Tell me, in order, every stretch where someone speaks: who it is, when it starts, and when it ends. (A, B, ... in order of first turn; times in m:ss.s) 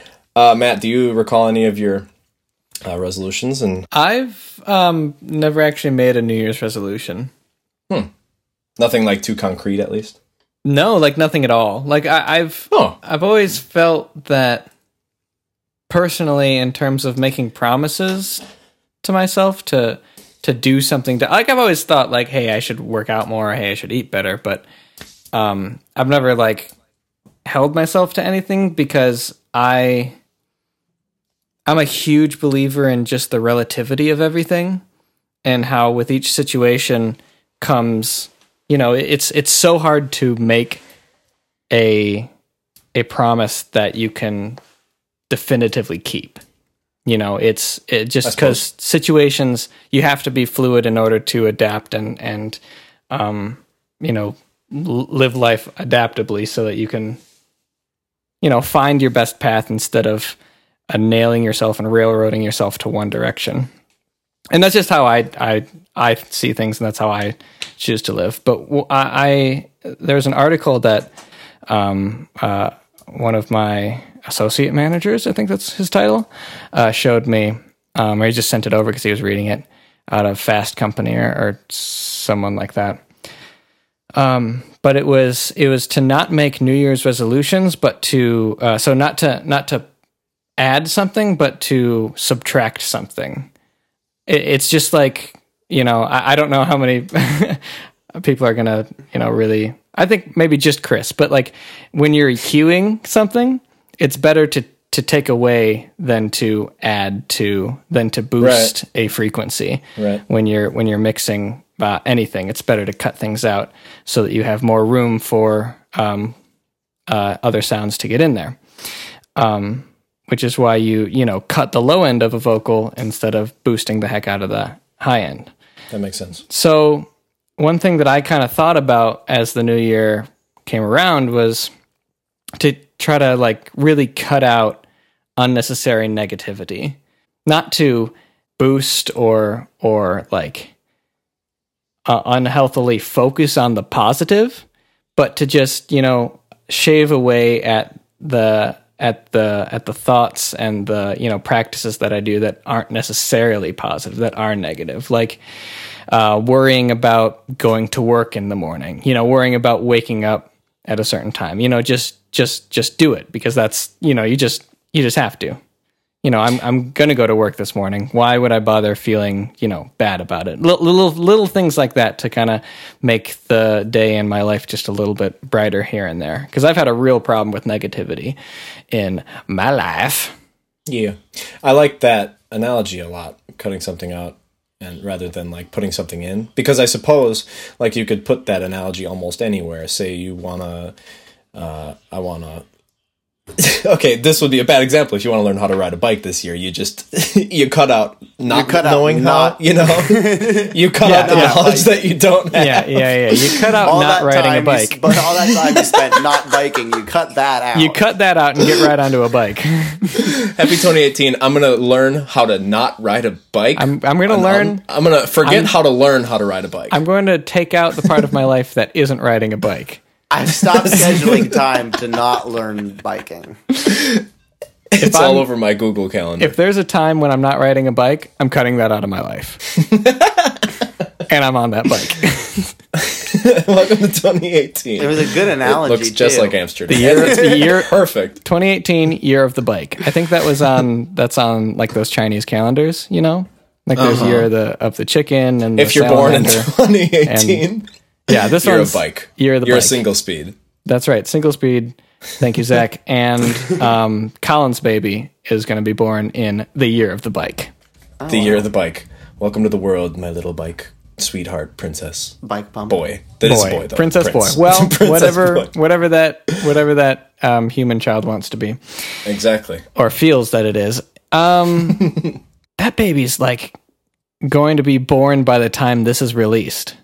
0:00.3-0:02.1 A
0:02.8-0:03.9 A
0:03.9-0:07.3 B
0:08.8-0:10.2 A
0:10.6-0:14.7 B
0:12.7-0:13.0 A
0:15.9-0:18.4 B
0:19.0-0:24.6 B
0:25.3-0:26.7 B
0:27.4-0:30.2 B
0:31.6-0:34.8 B
0:35.4-0:40.8 B
0:41.7-0:42.3 B
0:42.9-0:44.6 B
0:45.3-0:46.4 B
0:47.0-0:52.6 B
0:48.2-0:48.6 A
0:53.1-0:57.2 B
0:58.4-1:00.4 B
1:00.9-1:03.7 B
1:04.5-1:11.1 B
1:11.7-1:23.0 B
1:24.1-1:29.9 B
1:30.6-1:33.5 B
1:34.3-1:37.6 B
1:38.1-1:56.3 B
1:48.4-1:48.7 A
1:50.0-1:50.2 A
1:57.1-1:58.6 B
1:59.4-2:05.5 B
2:05.9-2:06.4 A
2:06.5-2:11.7 B
2:12.6-2:14.8 B
2:15.4-2:20.7 B
2:22.0-2:24.6 B
2:25.2-2:35.4 B
2:36.1-2:45.6 B
2:46.2-2:58.4 B
2:58.9-3:00.3 B
3:00.8-3:10.9 A
3:11.5-3:12.6 A
3:13.6-3:23.7 A
3:18.5-3:22.1 C
3:21.0-3:21.6 B
3:22.5-3:25.0 B
3:23.8-3:28.0 C
3:25.6-3:26.0 A
3:27.7-3:30.4 B
3:30.2-3:37.0 A
3:33.8-3:34.8 B
3:35.4-3:35.7 B
3:36.9-3:40.0 B
3:40.3-3:43.6 C
3:40.8-3:41.5 A
3:43.8-3:44.2 A
3:44.9-3:46.6 A
3:45.0-3:45.5 B
3:46.4-3:49.6 B
3:49.7-3:50.7 A
3:51.3-3:52.7 B
3:52.9-3:58.4 A
3:55.0-3:57.5 C
3:56.9-4:06.7 B
4:04.0-4:04.5 A
4:05.8-4:10.6 A
4:07.2-4:07.6 B
4:08.3-4:10.0 B
4:10.8-4:17.7 B
4:18.2-4:18.6 C
4:18.3-4:22.4 A
4:22.4-4:23.0 C
4:22.9-4:25.7 A
4:23.4-4:28.8 B
4:29.2-4:29.8 A
4:29.9-4:32.1 B
4:32.0-4:32.3 A
4:32.8-4:33.8 B
4:34.4-4:36.9 B